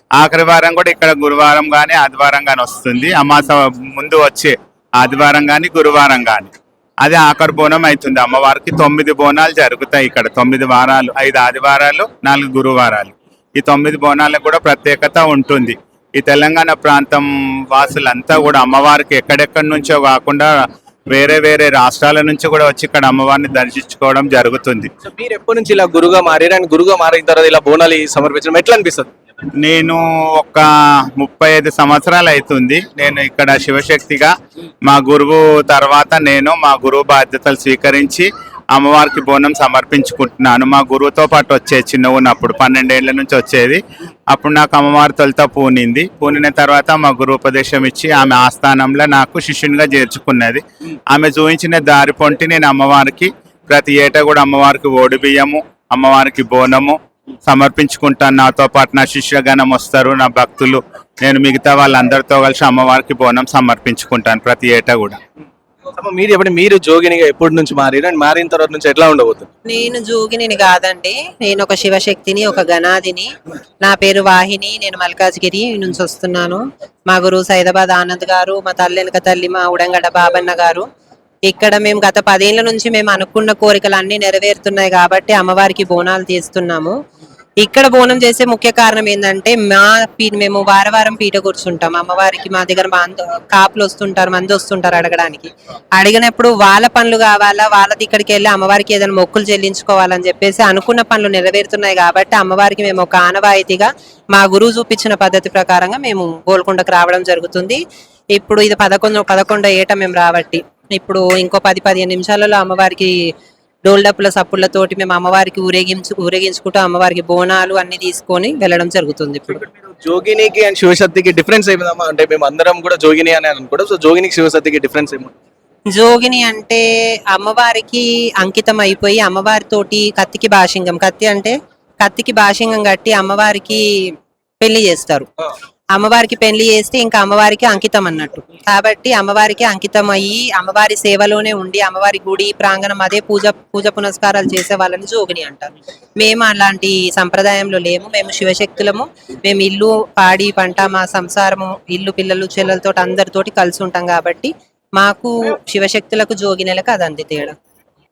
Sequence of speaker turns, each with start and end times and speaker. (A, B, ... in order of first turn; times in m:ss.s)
0:00.2-0:20.5 A
0:21.1-0:24.9 A
0:25.0-0:29.1 B
0:29.6-0:34.3 A
0:34.8-1:05.2 A
1:06.0-1:09.5 B
1:09.6-1:13.3 C
1:13.8-1:20.8 C
1:21.5-1:26.9 C
1:27.6-1:47.8 C
1:48.3-1:53.1 C
1:53.8-1:59.6 C
1:59.5-2:05.3 B
2:05.9-2:15.3 C
2:15.9-2:37.5 C